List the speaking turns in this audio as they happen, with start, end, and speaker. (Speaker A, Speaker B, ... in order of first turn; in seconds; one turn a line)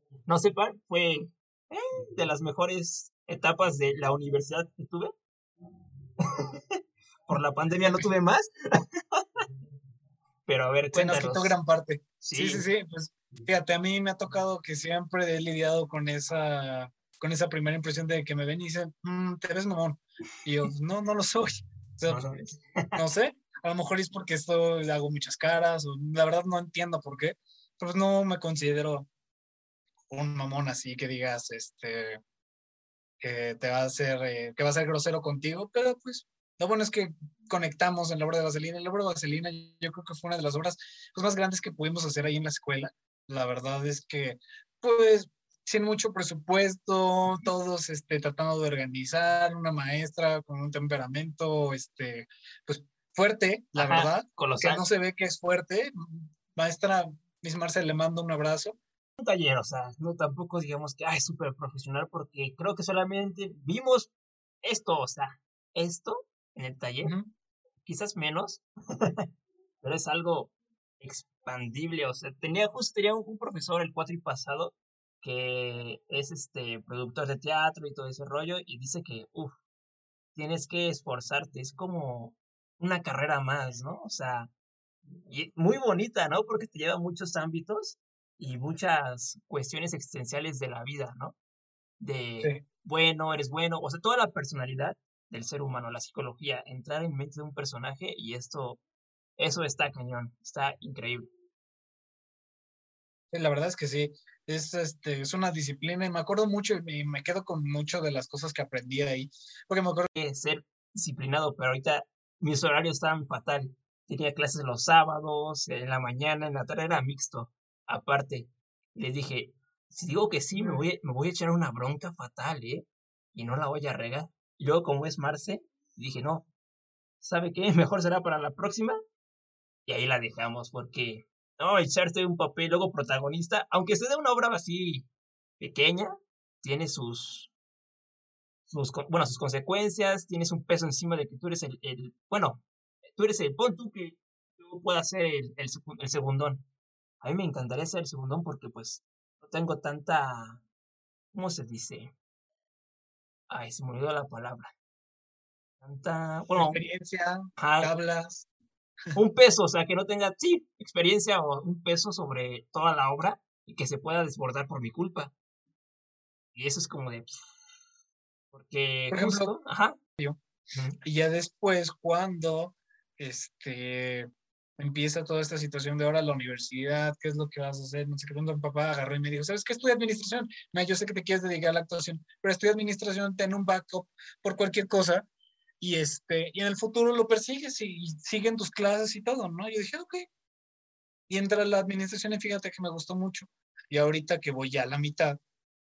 Speaker A: 0.3-5.1
Speaker A: 7.3-8.5
Speaker A: 10.4-11.6
Speaker B: 10.9-22.2
Speaker A: 12.2-12.7
Speaker A: 22.1-23.0
Speaker B: 22.9-29.1
Speaker B: 30.1-32.2
Speaker B: 33.2-58.8
Speaker A: 53.7-54.8
Speaker A: 59.2-64.1
Speaker A: 64.6-67.1
Speaker A: 67.8-69.2
Speaker A: 69.8-79.6
Speaker A: 80.3-84.5
Speaker A: 85.3-91.3
Speaker A: 92.0-98.8
Speaker A: 99.4-101.2
Speaker B: 103.3-110.1
Speaker A: 110.2-126.5
Speaker A: 127.2-128.9
Speaker A: 129.8-135.1
Speaker A: 135.6-137.5
Speaker A: 138.7-142.6
Speaker A: 143.1-146.6
Speaker A: 147.2-150.6
Speaker A: 151.3-152.1
Speaker A: 153.5-154.7
Speaker A: 155.8-156.8
Speaker B: 156.5-158.5
Speaker A: 157.6-157.9
Speaker A: 159.1-165.3
Speaker A: 166.5-167.4
Speaker A: 168.5-169.9
Speaker B: 169.1-169.5
Speaker B: 171.0-174.3
Speaker B: 174.8-185.3
Speaker B: 185.8-190.3
Speaker B: 191.3-195.4